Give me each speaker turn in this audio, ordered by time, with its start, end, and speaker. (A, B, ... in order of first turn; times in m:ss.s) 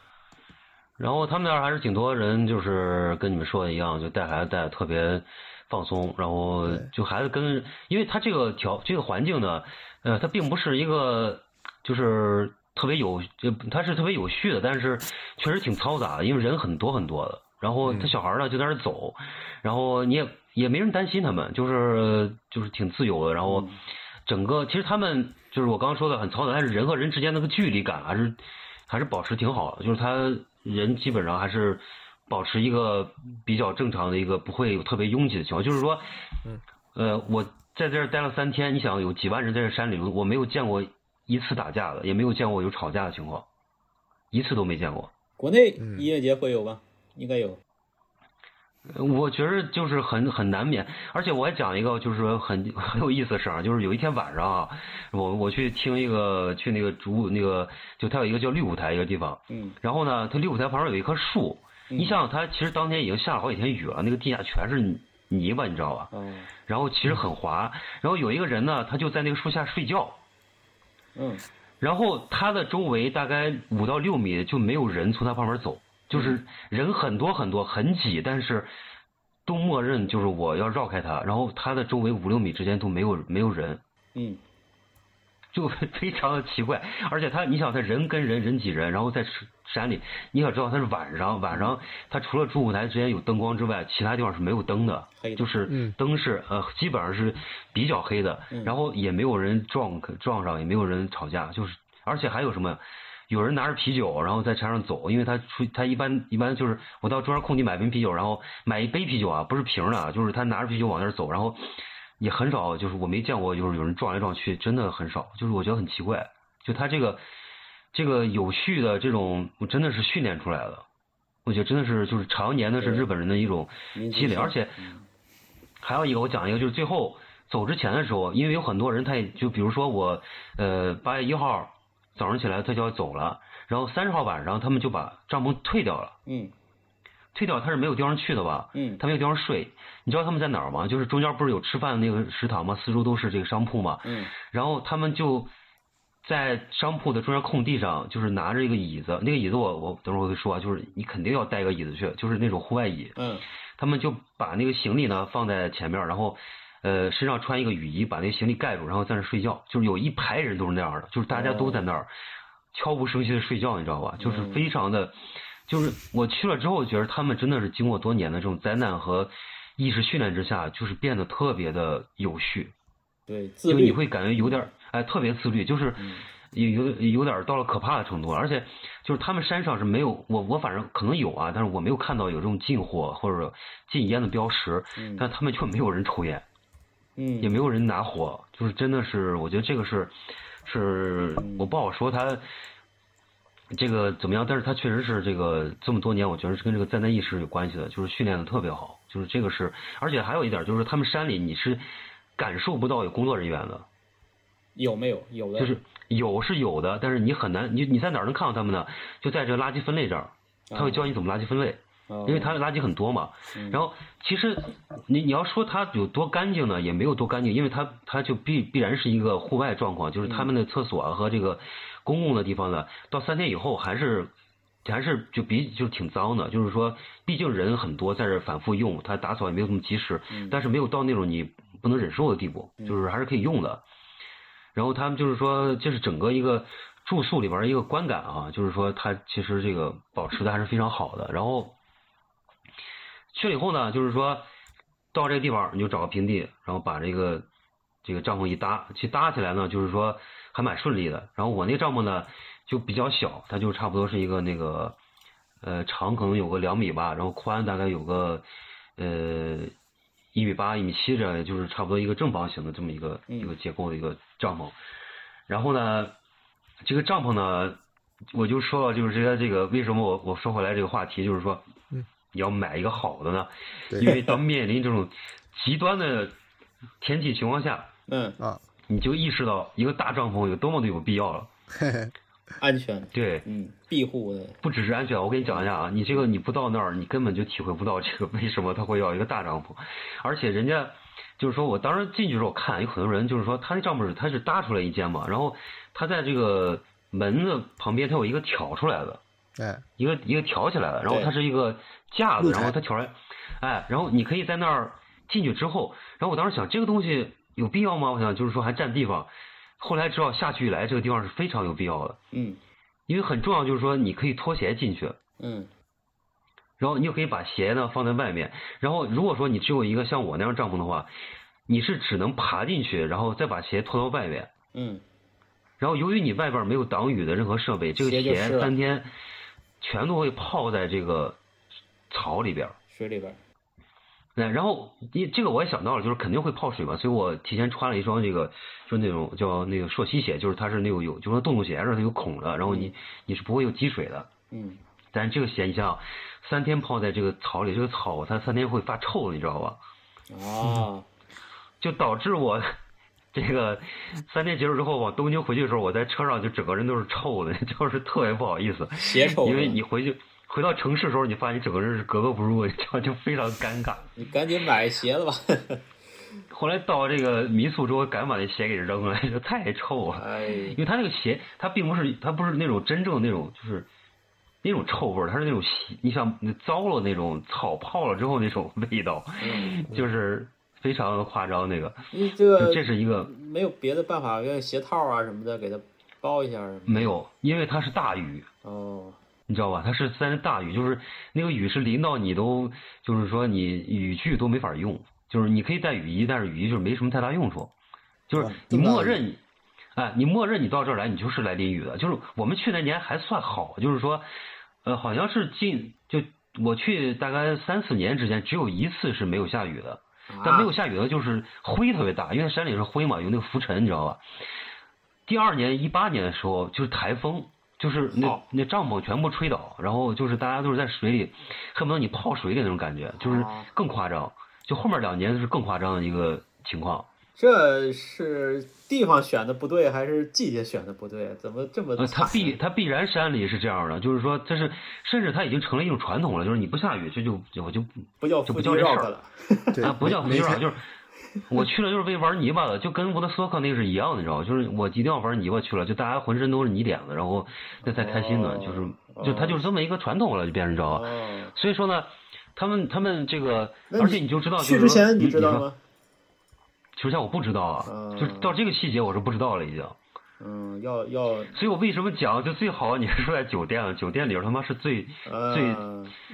0:01.0-0:23.7 A
0:06.6-0:06.9 B
0:17.8-0:18.1 B
0:23.4-0:23.8 C
0:24.3-0:36.0 A
0:37.0-0:43.4 A
0:44.3-0:45.1 A
0:45.4-0:47.6 C
0:45.8-0:46.1 B
0:48.9-1:06.1 A
0:59.5-0:59.8 C
1:01.9-1:02.2 C
1:06.1-1:06.5 C
1:06.7-1:10.2 A
1:11.2-1:11.4 C
1:11.8-1:18.7 A
1:16.1-1:16.4 C
1:19.5-1:23.8 A
1:24.2-1:24.4 C
1:25.5-1:57.2 A
1:31.5-1:31.8 C
1:35.2-1:35.5 C
1:35.7-1:36.0 B
1:38.5-1:38.8 C
1:57.9-2:00.8 A
2:01.4-2:04.8 A
2:02.8-2:03.1 C
2:03.9-2:05.0 C
2:05.8-2:16.2 A
2:16.3-2:16.5 C
2:17.3-2:25.5 A
2:18.8-2:19.0 C
2:24.0-2:24.3 C
2:26.2-2:33.2 A
2:33.2-2:33.4 C
2:33.8-2:42.1 A
2:41.3-2:41.9 C
2:42.7-2:45.2 A
2:44.2-2:44.7 C
2:45.7-2:52.7 A
2:53.3-2:54.6 C
2:53.7-3:06.4 A
2:56.0-2:56.3 C
3:05.0-3:05.3 C
3:07.2-3:07.6 C
3:07.4-3:12.4 A
3:11.4-3:11.7 C
3:13.7-3:21.8 A
3:22.4-3:23.9 A
3:24.8-3:25.8 C
3:25.6-3:44.3 A
3:30.7-3:31.1 C
3:32.1-3:32.6 C
3:33.5-3:33.8 C
3:40.2-3:40.5 C
3:44.8-3:53.8 A
3:50.3-3:50.6 C
3:54.8-4:01.8 A
4:03.3-4:04.5 A
4:05.1-4:07.5 A
4:08.0-4:15.0 A
4:15.6-4:18.4 A
4:19.0-4:19.7 A
4:20.3-4:24.8 A
4:23.3-4:23.5 C
4:25.5-4:26.2 A
4:26.8-4:27.8 A
4:28.3-4:31.6 A
4:32.3-4:36.3 A
4:33.9-4:34.2 B
4:34.0-4:34.4 C
4:37.0-4:37.9 A
4:38.1-4:38.4 C
4:38.9-4:41.5 A
4:41.7-4:42.1 B
4:42.6-4:44.6 C
4:43.1-4:43.4 A
4:44.6-4:59.2 A
4:45.4-4:46.2 C
4:59.6-4:59.8 B
5:00.0-5:12.2 A
5:01.1-5:01.3 C
5:02.4-5:02.8 B
5:12.3-5:12.6 C
5:13.1-5:15.2 A
5:15.4-5:15.7 C
5:16.8-5:21.1 A
5:21.7-5:24.5 A
5:24.7-5:25.0 C
5:25.8-5:29.1 A
5:28.0-5:28.7 C
5:29.8-5:31.4 A
5:32.1-5:32.8 A
5:32.9-5:33.4 C
5:34.4-5:44.3 A
5:42.6-5:42.9 C
5:44.5-5:44.8 C
5:45.1-5:49.8 A
5:50.3-5:51.1 C
5:51.8-5:52.8 A
5:53.3-6:04.1 A
5:59.0-5:59.8 C
6:04.2-6:05.8 C
6:06.5-6:13.9 A
6:10.1-6:10.8 C
6:14.6-6:23.3 A
6:19.4-6:19.8 C
6:22.1-6:27.1 C
6:26.9-6:28.5 A
6:28.6-6:29.2 C
6:29.5-6:37.7 A
6:38.3-6:39.4 A
6:38.4-6:39.2 B
6:40.0-6:44.3 A
6:44.8-6:54.2 A
6:50.3-6:50.7 C
6:55.3-7:07.1 A
6:58.1-6:58.4 C
7:03.2-7:03.7 C
7:07.4-7:12.6 C
7:12.0-7:19.1 A
7:18.2-7:19.9 C
7:19.8-7:20.6 B
7:19.8-7:20.9 A
7:21.4-7:35.6 A
7:27.8-7:29.7 C
7:30.9-7:31.6 C
7:33.9-7:35.8 C
7:37.0-7:40.0 A
7:37.8-7:38.6 C
7:40.4-7:41.5 C
7:41.5-7:45.8 A
7:45.2-7:46.1 C